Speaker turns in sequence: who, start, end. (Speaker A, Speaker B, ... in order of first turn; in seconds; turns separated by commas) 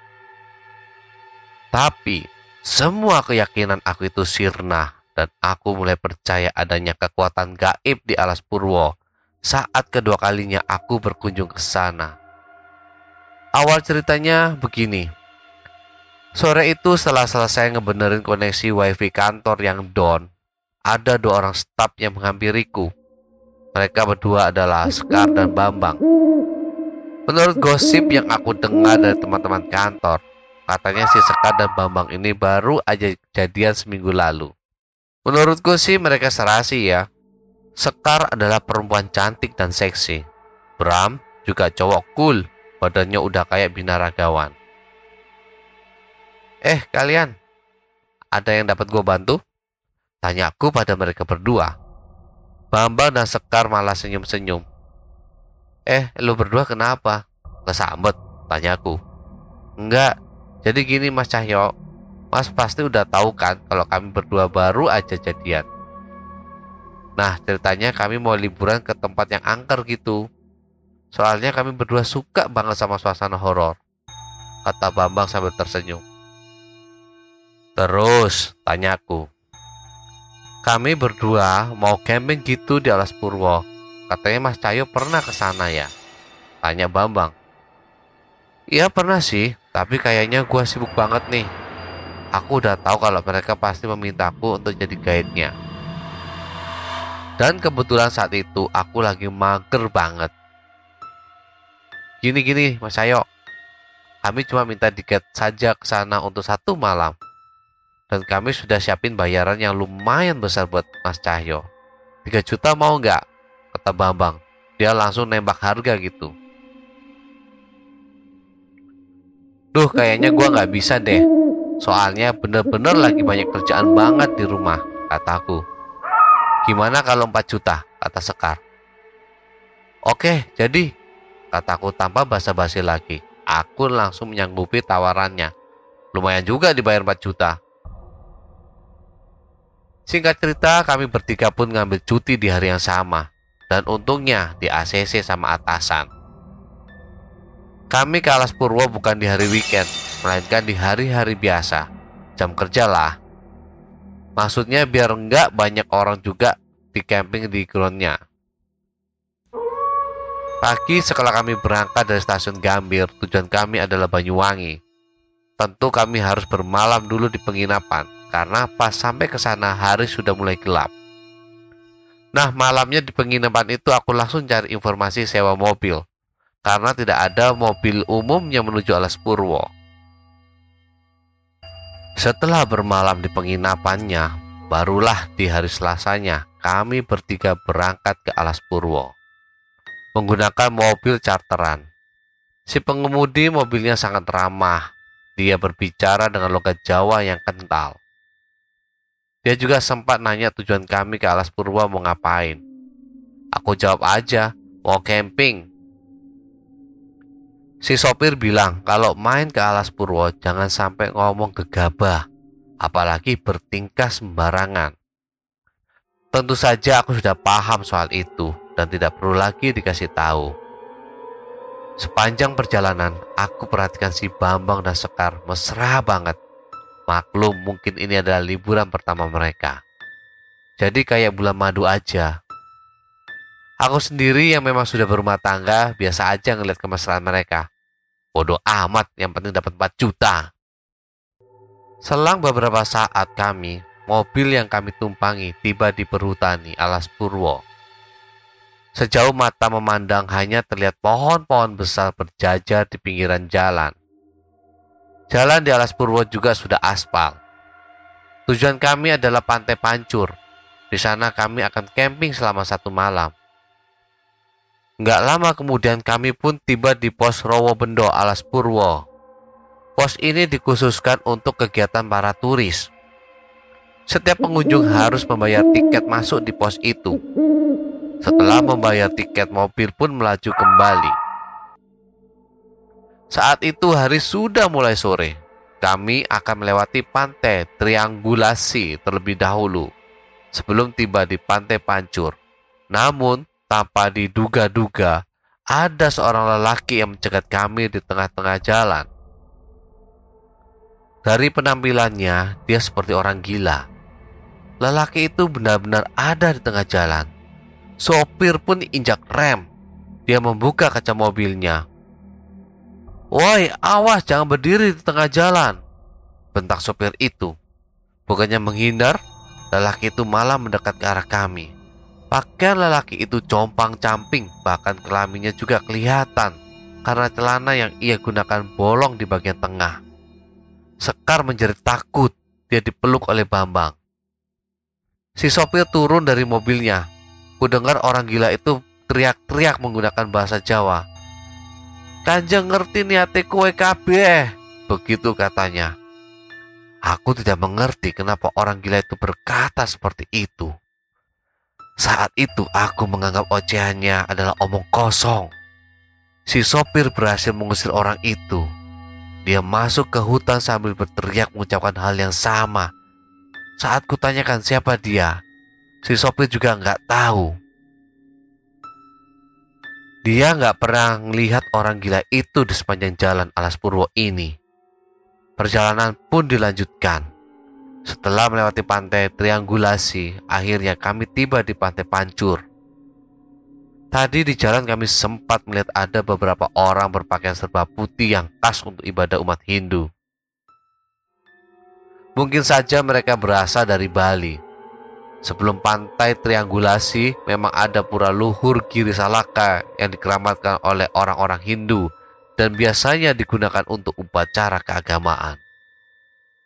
Speaker A: 1.7-8.9, Speaker A: 9.5-12.1, Speaker A: 13.6-15.1, Speaker A: 16.4-20.3, Speaker A: 20.9-22.9, Speaker A: 23.8-26.0, Speaker A: 27.3-34.5, Speaker A: 35.3-37.0, Speaker A: 37.8-40.2, Speaker A: 40.8-44.5, Speaker A: 46.7-47.3, Speaker A: 48.4-49.4, Speaker A: 50.2-51.7, Speaker A: 52.7-54.6, Speaker A: 55.9-59.0, Speaker A: 59.8-60.1, Speaker A: 60.6-61.7, Speaker A: 62.3-65.7, Speaker A: 67.2-70.2, Speaker A: 71.1-73.8, Speaker A: 74.7-76.0, Speaker A: 77.8-79.2, Speaker A: 80.7-85.9, Speaker A: 86.6-87.3, Speaker A: 88.7-91.5, Speaker A: 92.4-95.5, Speaker A: 97.4-100.3, Speaker A: 102.2-103.2, Speaker A: 104.2-107.1, Speaker A: 108.1-111.6, Speaker A: 112.2-113.2, Speaker A: 113.7-116.3, Speaker A: 119.7-121.2, Speaker A: 121.8-125.6, Speaker A: 126.7-128.6, Speaker A: 130.1-130.9, Speaker A: 131.5-135.5, Speaker A: 136.1-137.6, Speaker A: 140.1-146.1, Speaker A: 147.9-151.8, Speaker A: 152.4-153.1, Speaker A: 154.4-158.2, Speaker A: 160.6-164.8, Speaker A: 165.6-170.9, Speaker A: 172.4-176.0, Speaker A: 176.7-179.7, Speaker A: 182.2-189.1, Speaker A: 190.2-191.8, Speaker A: 192.7-194.8, Speaker A: 195.4-198.0, Speaker A: 199.4-202.6, Speaker A: 203.6-205.6, Speaker A: 207.8-212.2, Speaker A: 212.8-214.9, Speaker A: 216.3-220.5, Speaker A: 222.0-226.4, Speaker A: 227.1-229.8, Speaker A: 230.8-232.3, Speaker A: 233.8-237.6, Speaker A: 238.4-240.4, Speaker A: 242.1-247.6, Speaker A: 249.0-253.9, Speaker A: 255.3-257.4, Speaker A: 258.5-260.3, Speaker A: 260.9-263.3, Speaker A: 265.0-269.0, Speaker A: 270.0-272.8, Speaker A: 274.1-277.2, Speaker A: 278.2-281.2, Speaker A: 283.3-289.9, Speaker A: 290.5-292.3, Speaker A: 292.9-295.2, Speaker A: 295.7-299.1, Speaker A: 301.3-303.8, Speaker A: 304.8-307.3, Speaker A: 308.0-309.7, Speaker A: 310.3-311.8, Speaker A: 313.4-315.8, Speaker A: 316.5-317.5, Speaker A: 318.3-319.2, Speaker A: 319.7-321.7, Speaker A: 322.3-326.5, Speaker A: 327.1-330.0, Speaker A: 331.0-334.0, Speaker A: 335.4-337.0, Speaker A: 337.6-341.0, Speaker A: 342.3-345.9, Speaker A: 347.1-350.7, Speaker A: 352.0-355.5, Speaker A: 356.5-358.6, Speaker A: 359.4-362.9, Speaker A: 363.8-365.3, Speaker A: 366.0-367.5, Speaker A: 370.2-374.5, Speaker A: 375.6-377.2, Speaker A: 378.1-382.6, Speaker A: 384.1-390.1, Speaker A: 392.4-394.6, Speaker A: 395.4-402.0, Speaker A: 402.6-405.6